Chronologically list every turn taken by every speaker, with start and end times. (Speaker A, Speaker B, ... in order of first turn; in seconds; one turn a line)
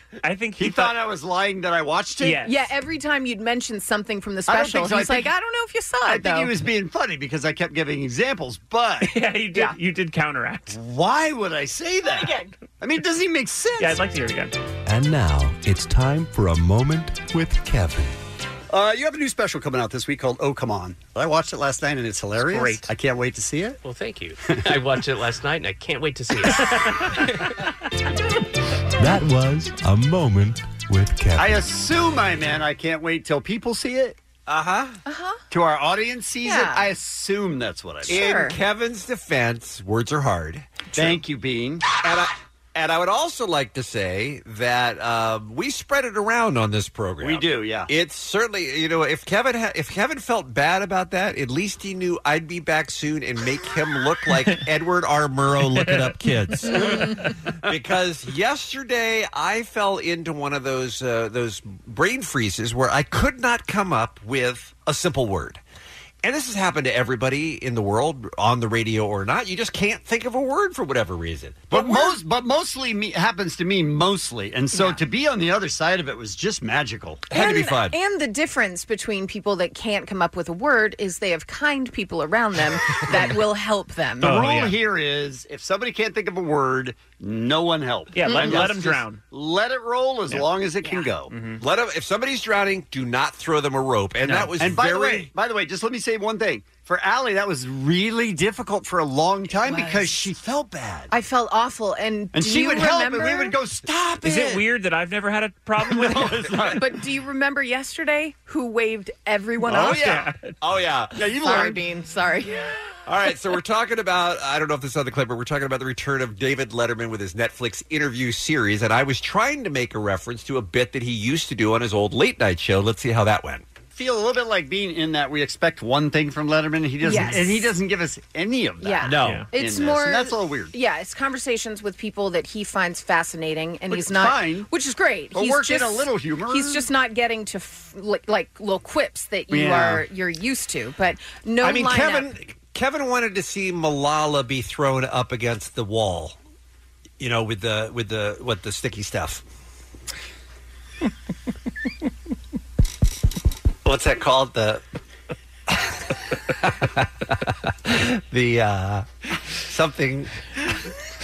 Speaker A: 0.2-0.9
Speaker B: 0.6-2.4
Speaker A: 2.2-2.6
Speaker C: 2.4-6.5
Speaker B: 4.5-5.3
Speaker B: 6.0-9.1
Speaker A: 9.0-10.8
Speaker B: 10.7-14.0
Speaker C: 12.1-12.5
Speaker A: 13.8-14.5
Speaker D: 14.8-18.1
Speaker B: 18.7-23.8
Speaker A: 22.4-22.9
Speaker E: 23.8-27.3
Speaker D: 29.0-31.6
Speaker B: 31.4-34.2
Speaker F: 34.5-35.0
Speaker C: 35.0-35.4
Speaker B: 35.5-38.2
Speaker C: 36.4-36.9
Speaker C: 38.1-38.6
Speaker F: 38.1-41.2
Speaker B: 40.9-41.8
Speaker F: 42.0-65.6
Speaker B: 47.2-47.9
Speaker F: 66.2-72.0
Speaker B: 71.7-77.2
Speaker C: 74.7-75.0
Speaker F: 77.3-78.0
Speaker C: 77.3-84.4
Speaker B: 84.2-91.3
Speaker A: 84.2-84.8
Speaker A: 88.1-89.2
Speaker C: 88.2-88.6
Speaker A: 91.3-91.6
Speaker F: 91.6-95.3
Speaker A: 94.2-94.5
Speaker B: 94.6-101.1
Speaker C: 99.6-100.3
Speaker C: 101.1-103.5
Speaker B: 102.3-104.6
Speaker A: 104.2-106.7
Speaker B: 105.8-106.8
Speaker C: 106.7-110.1
Speaker B: 109.7-110.2
Speaker F: 109.8-111.2
Speaker A: 110.0-110.5
Speaker B: 111.1-111.8
Speaker C: 111.4-112.6
Speaker F: 113.0-123.7
Speaker B: 123.9-130.7
Speaker C: 127.0-127.7
Speaker C: 128.8-142.3
Speaker F: 129.0-129.4
Speaker B: 133.9-134.7
Speaker B: 135.3-136.9
Speaker B: 139.5-140.0
Speaker F: 141.6-146.4
Speaker F: 147.2-149.4
Speaker F: 153.8-154.8
Speaker F: 156.6-157.3
Speaker F: 157.8-160.3